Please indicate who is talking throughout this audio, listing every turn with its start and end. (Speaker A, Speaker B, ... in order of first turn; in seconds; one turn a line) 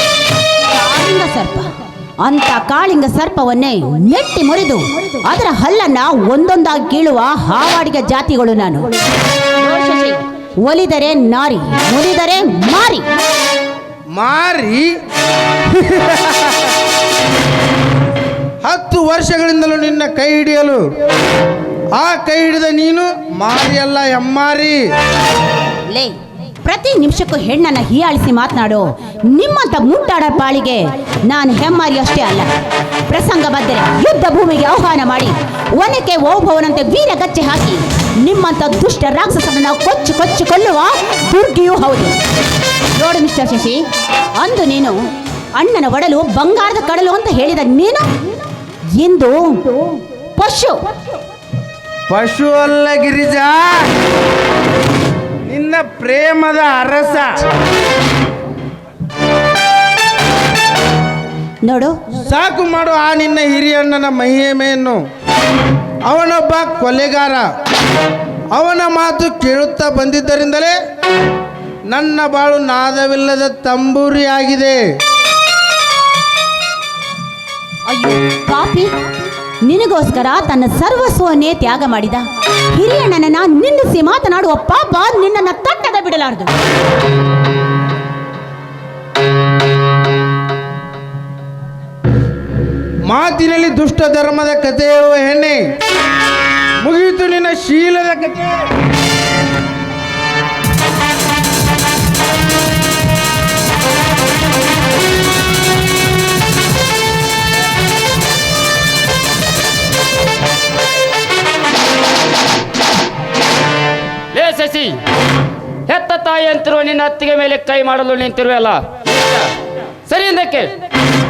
Speaker A: 0.7-8.9
Speaker A: 9.6-13.1
Speaker B: 14.2-14.9
Speaker B: 15.7-16.7
Speaker B: 18.6-20.8
Speaker B: 21.9-24.8
Speaker A: 25.9-32.5
Speaker A: 33.1-42.2
Speaker A: 42.9-43.8
Speaker A: 44.4-48.2
Speaker A: 49.0-49.8
Speaker A: 50.4-50.9
Speaker B: 52.1-53.9
Speaker B: 55.5-57.3
Speaker A: 61.6-62.1
Speaker B: 62.2-65.0
Speaker B: 66.0-67.5
Speaker B: 68.5-70.8
Speaker B: 71.9-74.8
Speaker A: 77.9-78.9
Speaker A: 79.6-86.5
Speaker B: 93.0-95.6
Speaker B: 96.8-98.7
Speaker C: 114.3-115.0
Speaker C: 115.9-119.5
Speaker C: 120.1-120.7